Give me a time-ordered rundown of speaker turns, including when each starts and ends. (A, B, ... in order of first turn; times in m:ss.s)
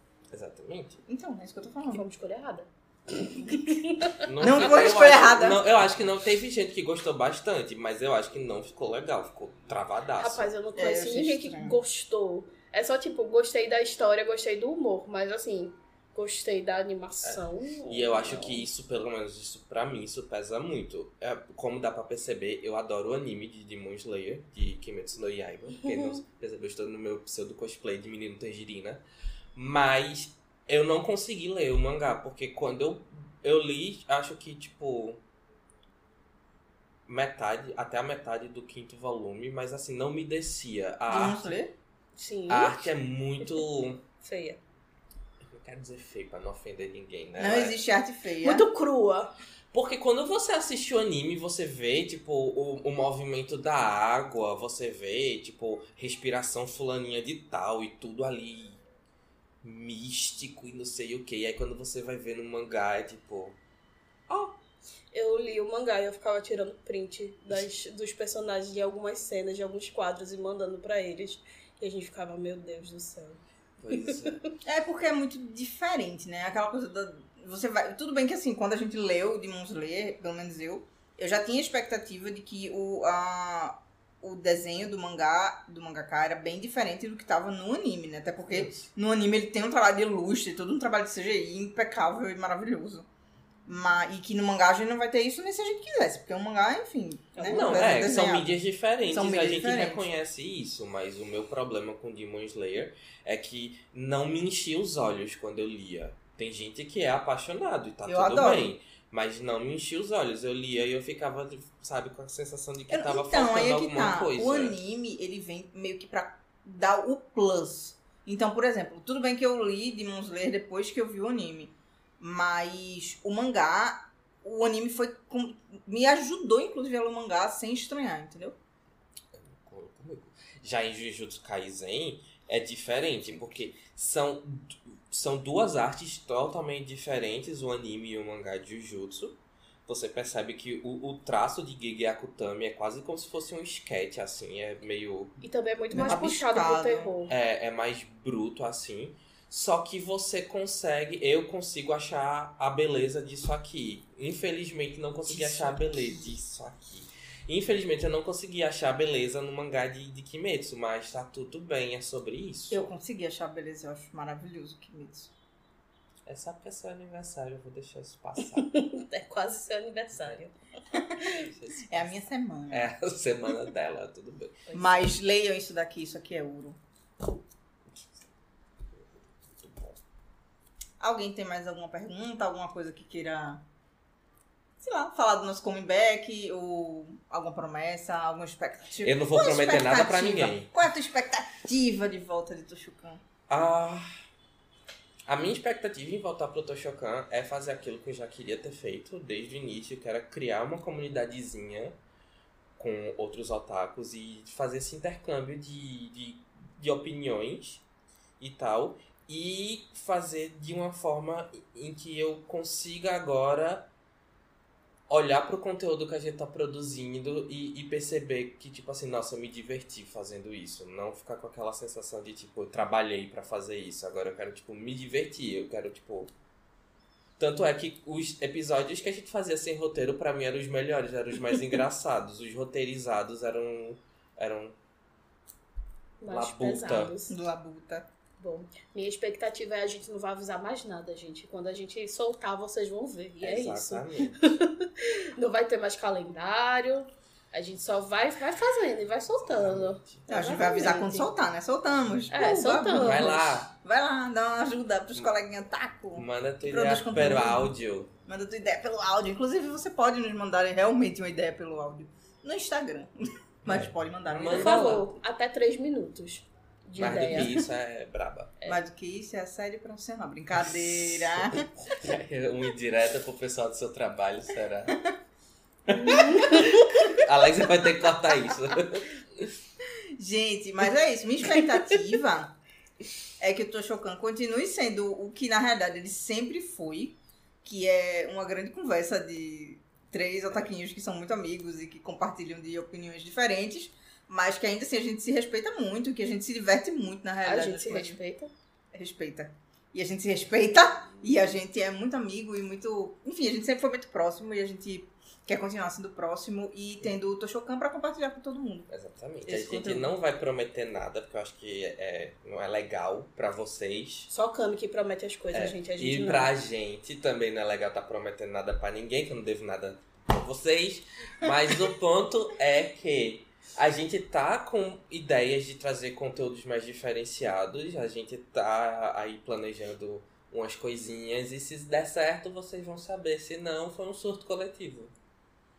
0:00.3-0:01.0 A
0:01.1-0:02.0 B
0:01.9-0:04.3 C
0:04.2-0:10.5 A
0:04.4-0:05.6 B
0:10.2-0:18.7 C
0:10.8-0:11.8 B
0:17.2-0:29.0 A
0:25.8-0:26.2 C
0:29.6-0:35.2 A
0:37.1-0:41.6 A
0:41.1-0:41.7 B
0:42.2-0:44.6 C
0:42.5-0:44.0 A
0:45.5-0:47.8 A
0:47.4-0:48.7 B
0:48.4-0:49.3 C
0:49.7-0:58.8 A
0:59.6-1:03.6 A
1:05.1-1:14.5 C
1:13.8-1:14.4 A
1:14.6-1:33.1 B
1:28.5-1:28.9 A
1:33.7-1:40.1 B
1:37.4-1:38.0 C
1:37.5-1:54.8 A
1:48.1-1:48.7 B
1:52.9-2:08.6 B
2:09.3-2:25.4 A
2:25.4-2:27.3 C
2:25.9-2:27.1 B
2:27.3-2:42.9 A
2:35.3-2:36.3 B
2:42.7-2:45.3 B
2:46.3-2:48.7 A
2:48.4-2:50.5 C
2:51.2-2:52.0 A
2:51.9-2:52.9 B
2:52.7-2:54.7 A
2:54.7-2:55.1 C
2:54.7-2:56.8 B
2:59.4-3:00.0 A
3:01.0-3:03.6 B
3:04.8-3:13.2 B
3:09.0-3:10.7 A
3:13.5-3:14.0 A
3:15.3-3:22.0 A
3:22.8-3:27.8 A
3:28.4-3:33.9 A
3:35.1-3:46.3 A
3:47.4-3:54.8 A
3:56.2-3:57.4 C
3:56.3-3:57.2 A
3:57.3-3:58.1 B
3:58.4-4:11.3 C
4:03.4-4:04.4 A
4:09.4-4:10.3 A
4:10.3-4:17.7 B
4:12.3-4:13.5 C
4:12.9-4:13.7 A
4:16.1-4:18.1 A
4:18.2-4:23.1 B
4:23.6-4:25.0 B
4:23.7-4:25.2 A
4:24.5-4:27.6 C
4:27.0-4:28.6 A
4:28.6-4:31.7 B
4:30.8-4:35.0 A
4:35.9-4:39.6 A
4:35.9-4:37.2 C
4:40.2-4:42.6 B
4:43.4-4:58.2 B
4:57.4-4:58.5 C
4:58.9-5:08.9 B
5:08.9-5:14.3 A
5:09.4-5:10.1 B
5:14.3-5:16.5 C
5:15.5-5:35.1 A